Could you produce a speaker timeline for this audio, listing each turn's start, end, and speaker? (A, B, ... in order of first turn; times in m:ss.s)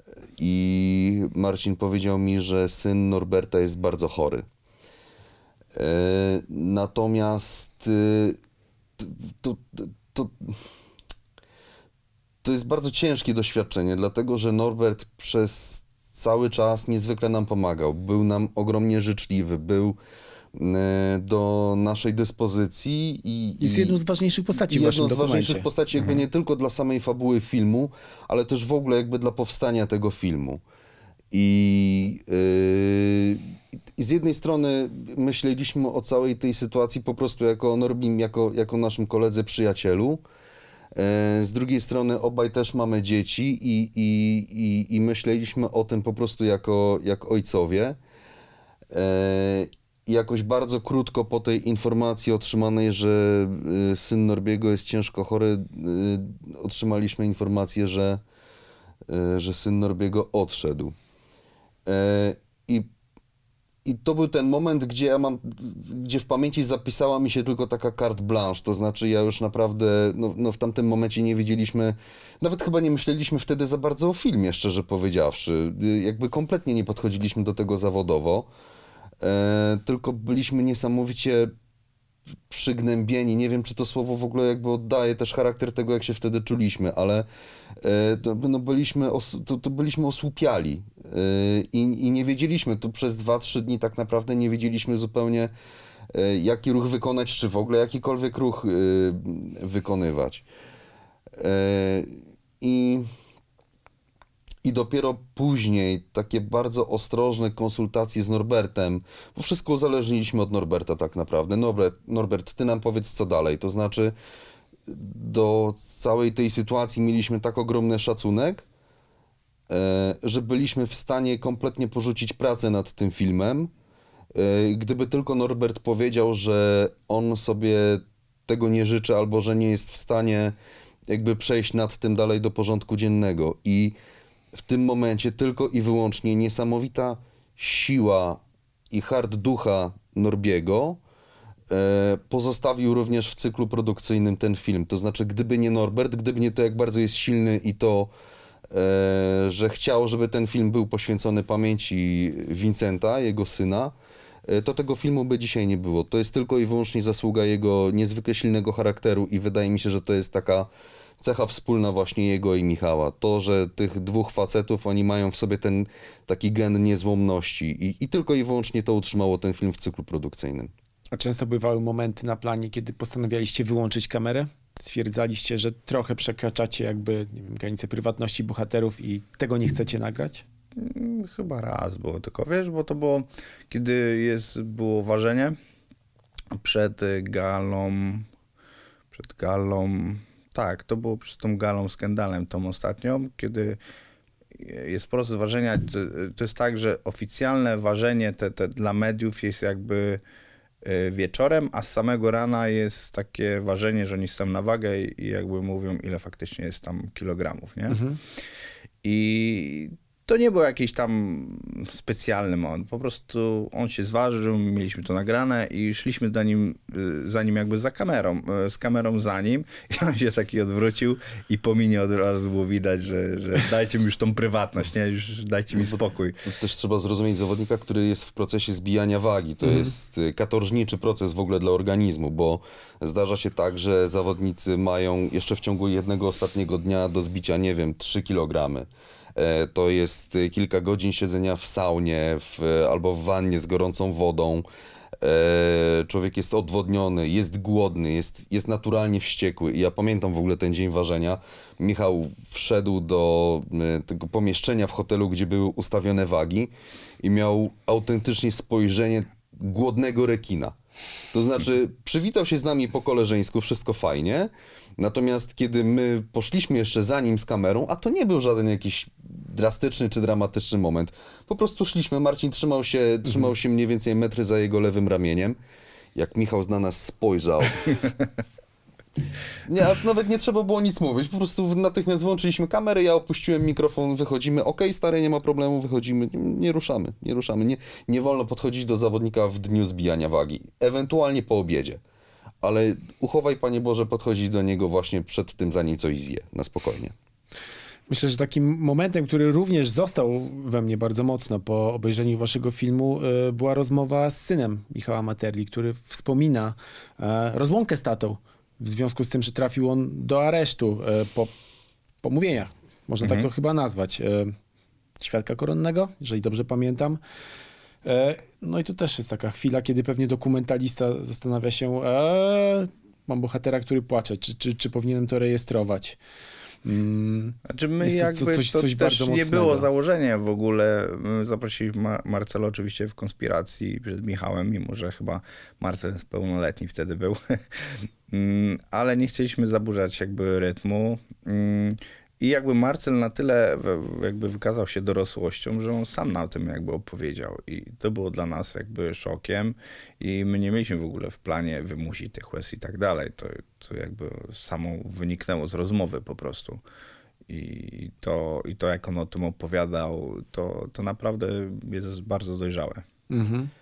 0:00.4-0:04.4 A
0:05.7-0:08.4 A
0:09.0-0:10.6 A
0:12.4-0:20.0 A
0:20.5-0:24.0 A
0:23.6-0:25.7 B
0:24.6-0:30.6 A
0:31.3-0:33.4 A
0:34.0-0:40.2 A
0:40.9-0:48.0 A
0:48.9-0:58.2 A
0:59.1-1:00.9 A
1:01.8-1:02.9 A
1:03.8-1:18.5 A
1:19.2-1:21.5 A
1:22.5-1:27.2 A
1:27.8-1:35.5 A
1:36.1-1:40.4 A
1:41.4-1:43.0 A
1:44.6-1:54.1 A
1:54.9-1:58.6 A
1:59.7-2:03.7 A
2:04.3-2:10.5 A
2:11.1-2:14.0 A
2:14.5-2:21.0 A
2:21.7-2:28.1 A
2:28.7-2:33.9 A
2:34.4-2:40.7 A
2:41.2-2:50.7 A
2:51.1-3:00.4 B
3:00.8-3:05.6 C
3:06.5-3:08.2 C
3:09.1-3:13.8 C
3:14.6-3:20.2 C
3:20.8-3:28.0 C
3:27.9-3:28.2 B
3:29.0-3:46.4 C
3:45.7-4:04.6 A
3:49.6-3:49.9 B
4:05.2-4:16.7 A
4:17.2-4:20.8 A
4:21.3-4:35.6 A
4:36.1-4:38.1 A
4:39.6-4:52.0 A
4:52.6-4:57.1 A
4:58.1-5:11.5 B
5:12.2-5:14.5 B
5:13.2-5:13.5 C
5:15.2-5:17.2 B
5:18.0-5:26.2 B
5:26.8-5:29.9 B
5:27.7-5:56.8 C
5:57.5-6:03.0 C
6:03.3-6:03.7 B